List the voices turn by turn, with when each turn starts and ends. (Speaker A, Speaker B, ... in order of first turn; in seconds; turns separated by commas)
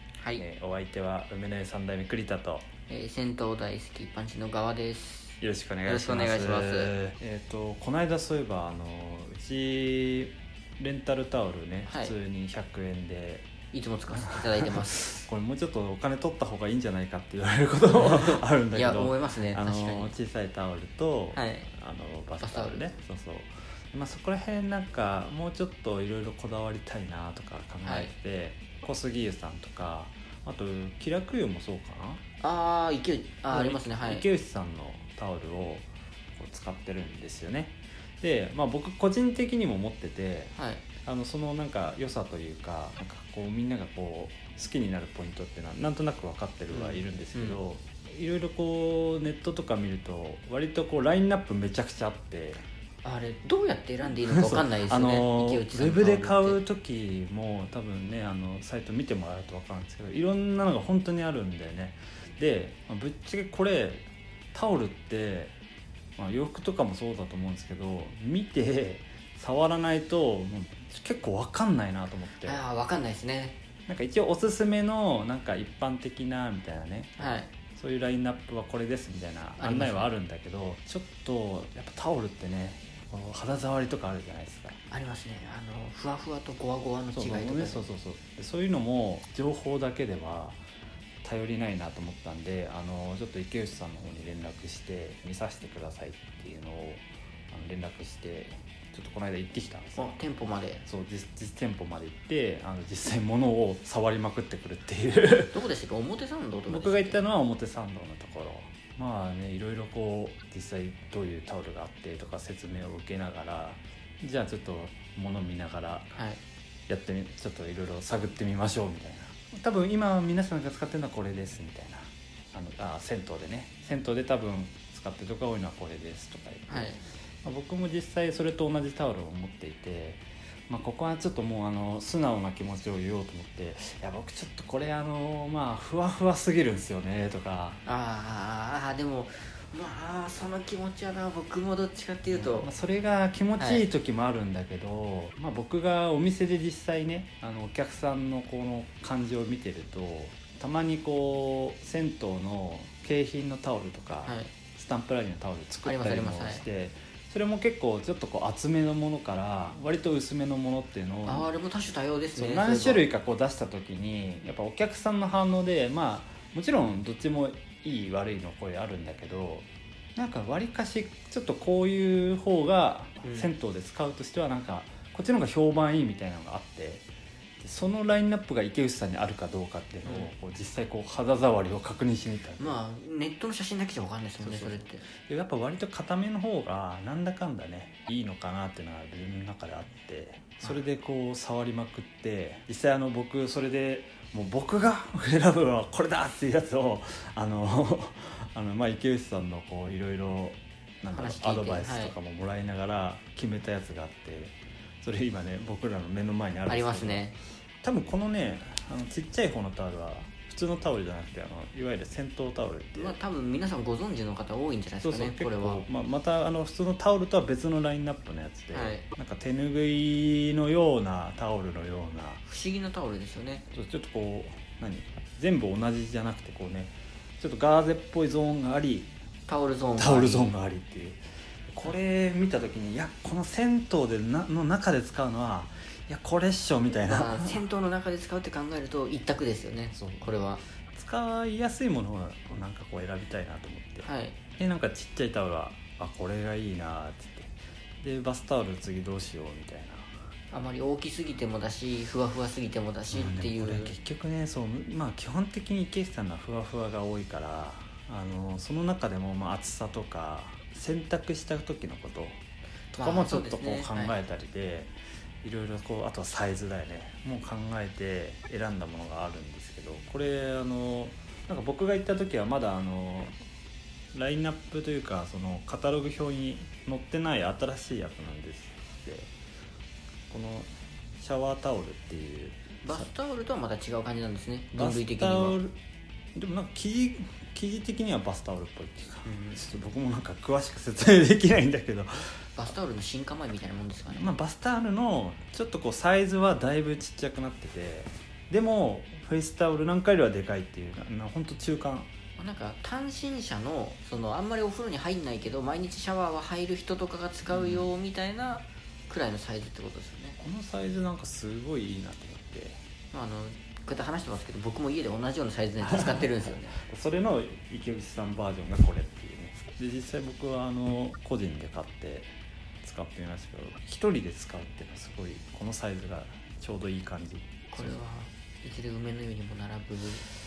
Speaker A: 0.3-2.7, Speaker B: 2.9-6.9, Speaker A: 5.4-13.5, Speaker B: 11.9-12.1, Speaker B: 13.7-15.2, Speaker A: 14.1-32.2, Speaker B: 17.9-20.1, Speaker B: 21.3-21.7, Speaker B: 22.4-22.9, Speaker B: 27.8-28.1, Speaker B: 32.4-34.3, Speaker A: 33.5-52.6, Speaker B: 40.5-40.8, Speaker B: 46.7-47.6, Speaker B: 53.0-56.6, Speaker A: 54.1-65.5, Speaker A: 66.2-72.6, Speaker B: 72.4-73.6, Speaker A: 73.9-84.8, Speaker B: 77.2-77.5, Speaker B: 79.6-80.1, Speaker B: 84.9-87.8, Speaker A: 87.1-90.6, Speaker A: 91.2-100.1, Speaker B: 100.0-100.8, Speaker A: 100.8-105.6, Speaker B: 105.4-107.2, Speaker A: 106.7-116.1, Speaker B: 116.1-116.4, Speaker A: 116.9-137.8, Speaker B: 126.7-127.0, Speaker B: 137.8-142.7, Speaker A: 142.3-161.5, Speaker B: 143.6-143.8, Speaker B: 154.2-154.5, Speaker B: 155.8-156.6, Speaker B: 161.2-163.1, Speaker A: 162.3-177.1, Speaker B: 173.2-173.5, Speaker A: 177.6-182.8, Speaker B: 180.1-180.3, Speaker B: 182.6-185.1, Speaker A: 184.4-207.3, Speaker B: 201.1-202.1, Speaker B: 206.7-207.4, Speaker A: 207.8-213.2, Speaker B: 212.9-215.8, Speaker A: 215.0-222.4, Speaker B: 218.7-219.1, Speaker B: 222.4-223.6, Speaker A: 223.7-229.1, Speaker B: 229.5-230.5, Speaker A: 230.0-237.6, Speaker B: 237.1-240.6, Speaker A: 239.9-240.2, Speaker A: 240.9-250.1, Speaker B: 244.0-244.4, Speaker B: 250.5-253.9, Speaker A: 253.1-262.4, Speaker B: 262.9-264.1, Speaker A: 263.0-273.4, Speaker A: 274.1-279.3, Speaker A: 280.3-283.1, Speaker B: 282.8-285.6, Speaker A: 284.7-285.7, Speaker A: 286.3-292.4, Speaker B: 289.2-289.6, Speaker B: 292.6-294.4, Speaker A: 294.1-302.1, Speaker B: 302.4-310.4, Speaker A: 307.5-307.9, Speaker A: 310.4-312.8, Speaker B: 313.1-316.8, Speaker A: 315.8-327.9, Speaker B: 327.7-330.2